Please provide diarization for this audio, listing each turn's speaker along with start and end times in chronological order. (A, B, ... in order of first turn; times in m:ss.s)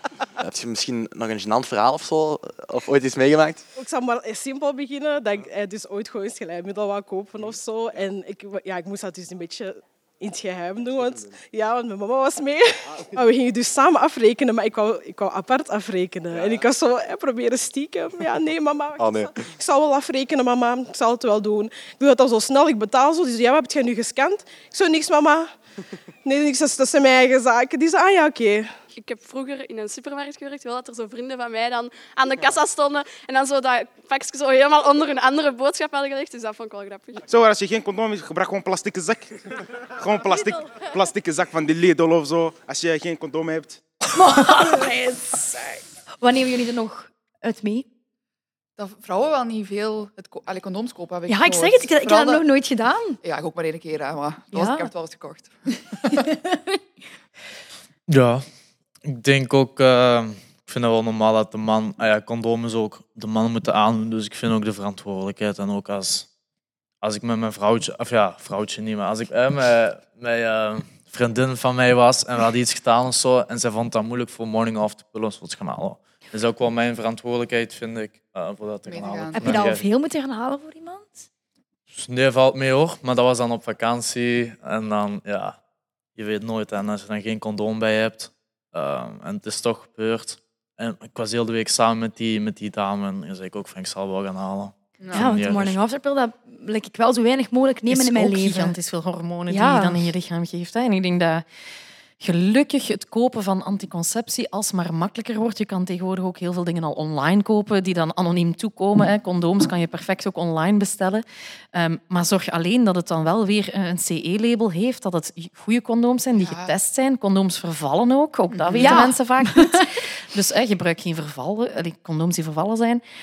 0:00.4-0:03.6 A
0:03.7-0:25.5 B
0:19.0-0:19.3 A
0:26.2-0:28.7 B
0:28.9-0:37.2 C
0:37.3-0:39.4 D
0:40.0-0:43.8 D
0:44.1-0:47.8 E
0:48.8-0:52.4 F
0:51.3-0:53.2 E
0:53.2-0:56.3 F
0:54.5-0:54.9 E
0:58.1-0:58.4 G
0:59.0-1:06.3 G
1:07.0-1:19.8 G
1:18.8-1:19.7 F
1:19.3-1:21.2 E
1:21.9-1:25.6 G
1:26.2-1:35.8 G
1:35.0-1:35.2 F
1:35.1-1:38.7 E
1:37.9-1:41.4 H
1:39.5-1:40.0 E
1:42.2-2:03.0 H
1:56.4-1:56.7 F
1:58.5-1:59.0 F
1:58.8-1:59.6 E